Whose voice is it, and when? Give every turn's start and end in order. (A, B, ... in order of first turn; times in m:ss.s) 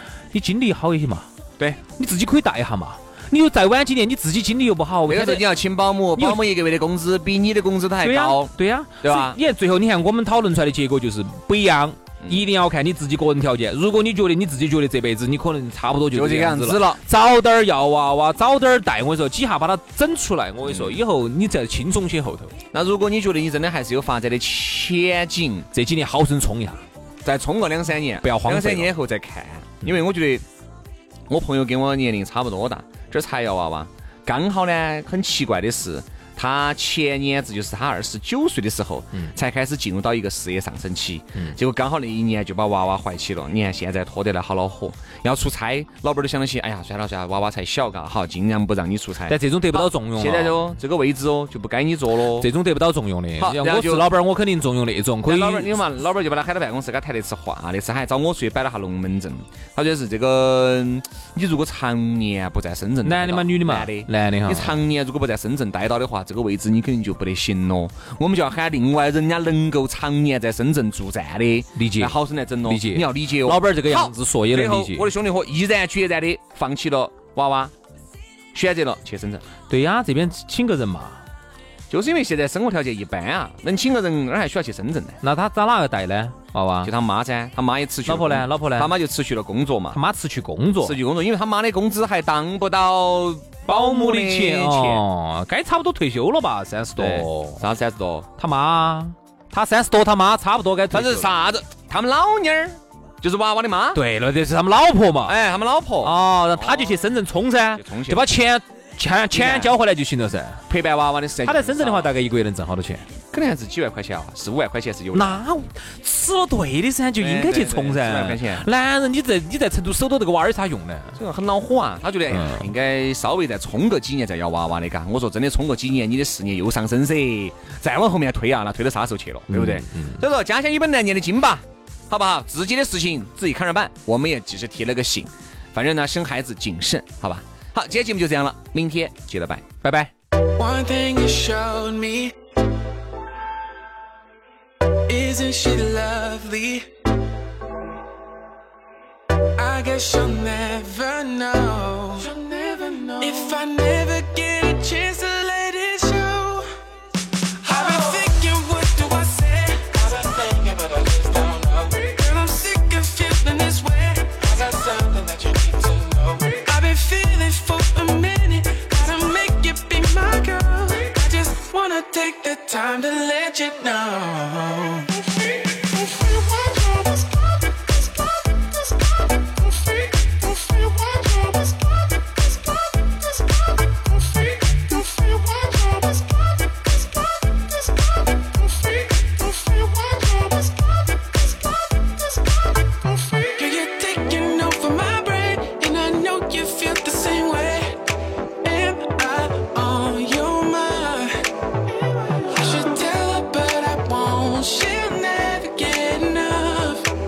0:00.3-0:01.3 A
0:02.0-0:05.4 A
0:05.1-0:09.4 B
0:06.2-0:06.4 A
0:08.0-0:22.5 A
0:16.1-0:17.0 B
0:20.6-0:21.0 B
0:22.7-0:25.7 B
0:25.7-0:26.8 A
0:27.2-0:30.4 B
0:28.2-0:28.9 A
0:31.3-0:52.5 B
0:49.3-0:50.6 A
0:52.4-0:55.7 A
0:53.4-0:54.1 B
0:55.2-1:17.7 B
1:03.0-1:04.8 A
1:11.8-1:15.1 A
1:18.5-1:19.4 B
1:19.7-1:21.2 A
1:21.9-1:25.2 B
1:25.2-1:26.9 A
1:26.8-1:30.0 B
1:28.0-1:28.9 A
1:29.9-1:31.0 A
1:30.8-1:35.0 B
1:33.7-1:37.6 A
1:37.0-1:38.3 B
1:38.4-1:41.3 A
1:40.9-1:44.0 B
1:43.9-1:45.3 A
1:45.2-1:47.1 B
1:46.0-1:50.6 A
1:47.8-1:48.3 B
1:49.3-1:49.7 B
1:50.7-1:52.1 B
1:51.4-1:53.0 A
1:53.3-1:55.4 B
1:55.1-2:01.2 A
1:57.2-1:58.6 B
2:01.2-2:19.6 B
2:02.3-2:02.7 A
2:09.5-2:10.2 A
2:19.8-2:20.1 A
2:20.6-2:22.3 C
2:25.1-2:26.9 C
2:29.6-2:36.7 C
2:37.6-2:55.2 C
3:13.6-3:18.0 C
3:18.6-3:21.3 C
3:22.3-3:27.1 C